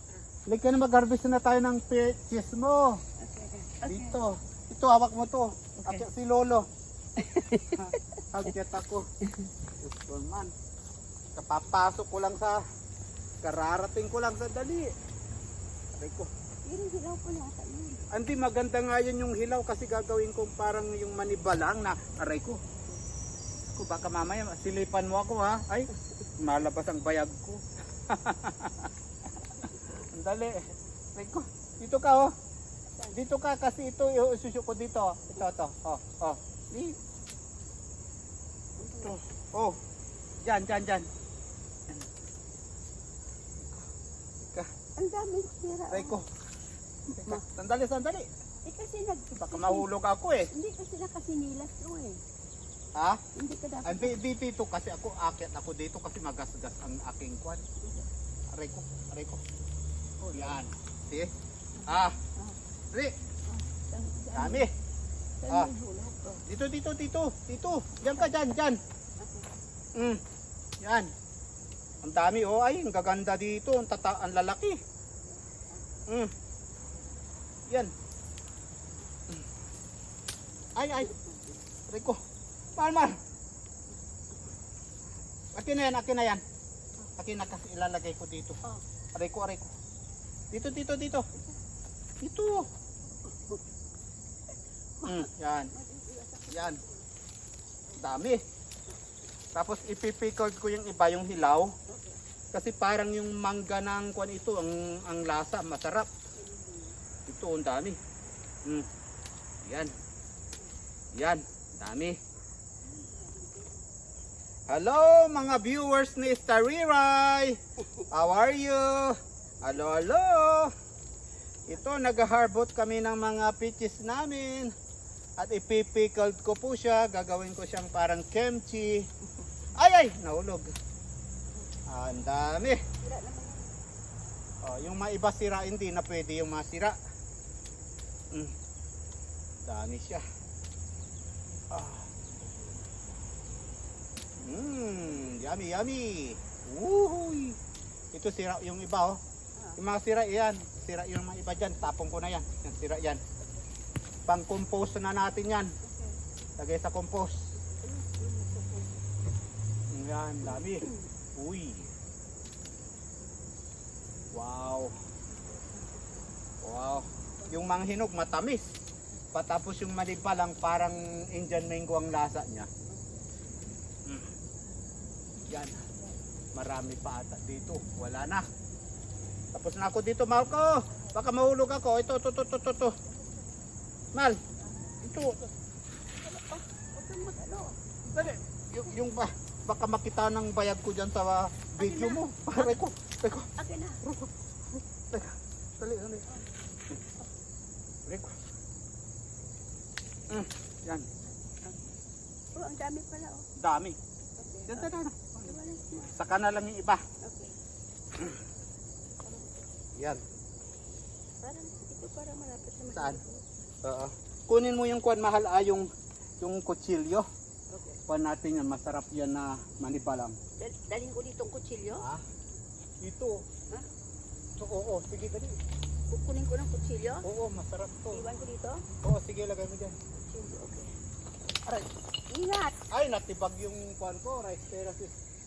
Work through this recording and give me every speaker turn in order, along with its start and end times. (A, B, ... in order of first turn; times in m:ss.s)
0:00.5-0:03.0 A
0:03.2-0:04.2 B
0:03.8-0:06.7 A
0:07.2-0:07.8 B
0:07.7-0:09.1 A
0:09.8-0:10.5 A
0:11.4-0:12.6 A
0:13.4-0:14.9 A
0:16.0-0:16.3 A
0:16.6-0:18.0 B
0:18.1-0:22.6 A
0:23.7-0:28.9 A
0:29.7-0:32.3 A
0:33.1-0:37.0 A
0:38.8-0:39.2 B
0:39.0-0:39.8 A
0:40.4-0:41.1 A
0:45.0-0:46.2 B
0:45.9-0:46.3 A
0:47.1-0:47.4 B
0:47.2-0:48.3 A
0:48.6-0:49.9 B
0:49.4-0:50.5 A
0:50.5-0:52.2 B
0:53.0-0:53.2 A
0:53.3-0:54.2 B
0:53.8-0:57.6 A
0:57.8-0:58.1 B
0:58.5-0:59.4 A
1:00.2-1:00.6 B
1:00.3-1:01.3 A
1:01.8-1:02.2 A
1:03.5-1:04.7 B
1:04.3-1:04.7 A
1:05.4-1:06.4 B
1:06.5-1:08.8 A
1:09.2-1:09.5 B
1:10.0-1:10.2 A
1:10.8-1:11.1 A
1:12.0-1:14.8 A
1:20.8-1:21.1 A
1:21.9-1:22.2 A
1:22.8-1:23.2 A
1:25.6-1:26.4 A
1:27.2-1:28.6 A
1:29.2-1:29.7 A
1:30.5-1:31.3 A
1:32.2-1:32.7 A
1:35.0-1:35.7 A
1:35.0-1:37.0 B
1:36.5-1:36.8 A
1:38.0-1:38.4 A
1:39.6-1:41.8 A
1:41.9-1:42.2 B
1:42.5-1:46.1 A
1:46.4-1:47.0 B
1:47.3-1:48.0 A
1:49.6-1:49.9 A
1:51.2-1:52.2 A
1:52.9-1:53.8 B
1:54.7-1:57.6 A
1:58.1-2:00.7 A
2:01.7-2:04.7 A
2:05.4-2:09.1 A
2:09.8-2:10.7 A
2:11.9-2:12.8 A
2:13.0-2:13.7 B
2:14.6-2:17.0 A
2:19.7-2:20.2 A
2:21.7-2:22.1 A
2:24.4-2:27.6 A
2:28.1-2:29.2 A
2:29.8-2:33.2 A
2:34.3-2:35.7 A
2:35.8-2:36.2 B
2:36.6-2:37.5 A
2:37.7-2:39.0 B
2:39.9-2:41.9 A
2:44.3-2:45.0 A
2:46.6-2:48.8 A
2:49.3-2:52.7 A
2:55.5-2:55.8 A
2:56.5-2:58.5 A
2:59.6-3:03.0 A
3:03.1-3:03.5 B
3:04.1-3:04.4 A
3:05.0-3:05.5 A
3:06.2-3:07.8 B
3:08.1-3:13.5 A
3:11.8-3:12.8 B
3:13.6-3:14.0 B
3:14.0-3:14.3 A
3:15.1-3:16.3 A
3:18.1-3:18.3 A
3:20.3-3:21.1 A
3:22.5-3:23.5 B
3:23.6-3:24.0 A
3:24.4-3:24.9 B
3:24.7-3:25.6 A
3:25.4-3:26.2 B
3:26.1-3:27.0 A
3:27.2-3:27.6 B
3:29.2-3:29.6 B
3:30.0-3:30.2 A
3:31.4-3:33.5 B
3:32.9-3:33.2 A
3:33.8-3:35.9 A
3:36.4-3:37.3 A
3:37.7-3:38.0 B
3:38.1-3:40.4 A
3:40.6-3:42.0 B
3:41.9-3:42.2 A
3:43.0-3:43.4 A
3:44.6-3:45.6 A
3:46.1-3:47.2 B
3:47.2-3:48.2 A
3:48.1-3:48.8 B
3:49.0-3:50.0 A
3:50.1-3:50.9 B
3:52.3-3:52.8 B
3:52.9-3:55.2 A